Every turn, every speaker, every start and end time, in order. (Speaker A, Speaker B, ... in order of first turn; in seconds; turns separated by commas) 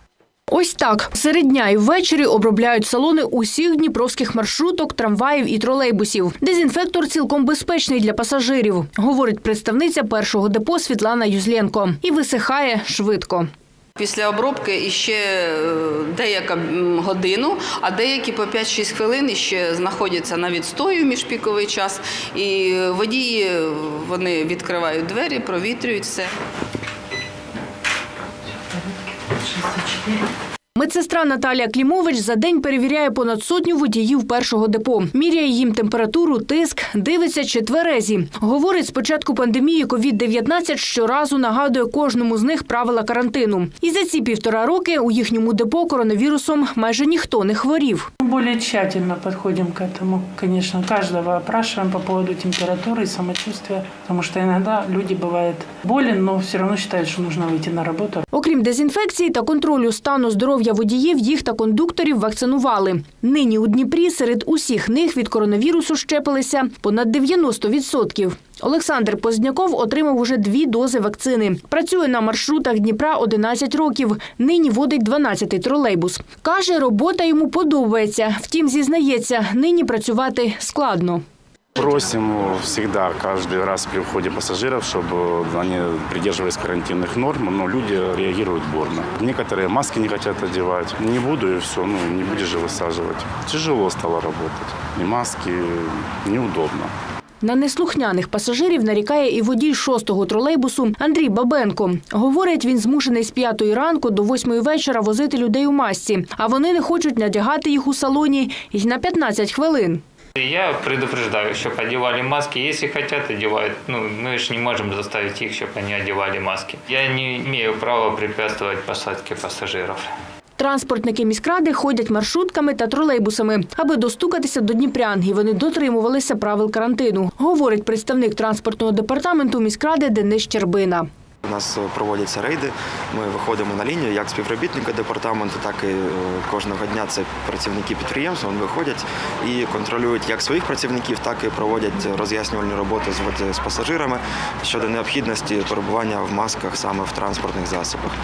Speaker A: 0.5-13.4, Speaker B: 14.0-26.3, Speaker A: 30.8-48.0, Speaker C: 48.2-58.2, Speaker A: 58.4-81.2, Speaker D: 81.8-96.9, Speaker A: 97.4-110.0, Speaker E: 110.4-120.1, Speaker A: 120.6-131.0, Speaker F: 131.4-148.1